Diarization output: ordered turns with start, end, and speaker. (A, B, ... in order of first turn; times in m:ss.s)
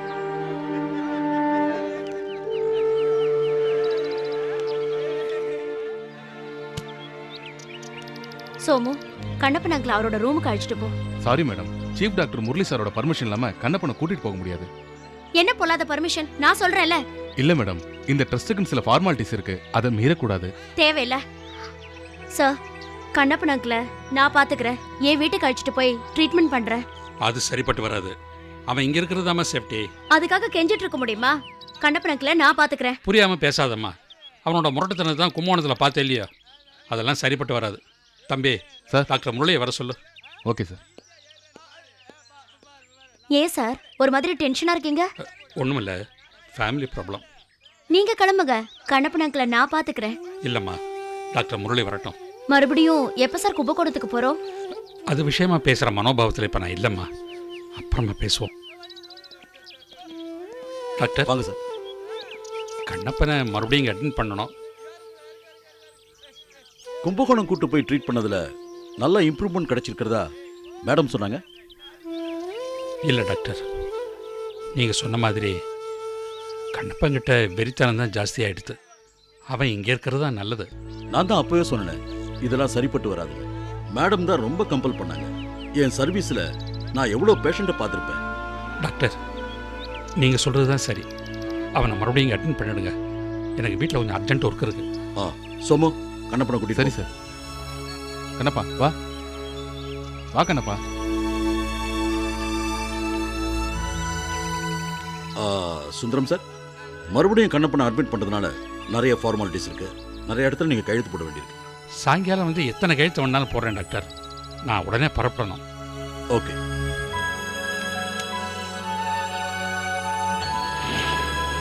0:08.6-0:10.9 A
0:11.2-0:14.6 B
0:15.4-0:17.0 A
0:17.4-0:20.5 B
0:20.8-0:21.2 A
0:22.3-0:22.6 A
0:23.1-0:26.8 A
0:27.2-0:28.1 C
0:28.7-0:29.9 C
0:30.1-0:33.0 A
0:33.0-0:33.9 C
0:34.4-0:36.3 C
0:36.9-0:38.6 C
0:39.1-0:40.0 C
0:40.5-0:40.8 B
0:43.3-0:45.1 A
0:45.6-0:46.0 C
0:46.5-0:47.2 C
0:47.9-0:50.2 A
0:50.4-0:50.8 C
0:51.3-0:52.1 C
0:52.5-0:54.4 A
0:55.1-0:57.1 C
0:57.8-0:58.5 C
1:01.0-1:01.3 C
1:01.3-1:01.6 D
1:02.9-1:04.5 C
1:07.0-1:08.4 D
1:09.0-1:10.2 D
1:10.9-1:11.4 D
1:13.1-1:13.6 C
1:14.8-1:15.5 C
1:16.8-1:18.8 C
1:19.5-1:20.7 C
1:21.1-1:23.4 D
1:24.0-1:26.4 D
1:27.0-1:28.2 D
1:28.8-1:29.1 C
1:30.2-1:31.0 C
1:31.8-1:32.9 C
1:33.6-1:34.8 C
1:35.2-1:37.0 D
1:38.4-1:38.9 B
1:40.4-1:40.8 B
1:45.4-1:46.4 D
1:47.1-1:51.6 D
1:52.0-1:54.1 C
1:54.7-1:55.6 C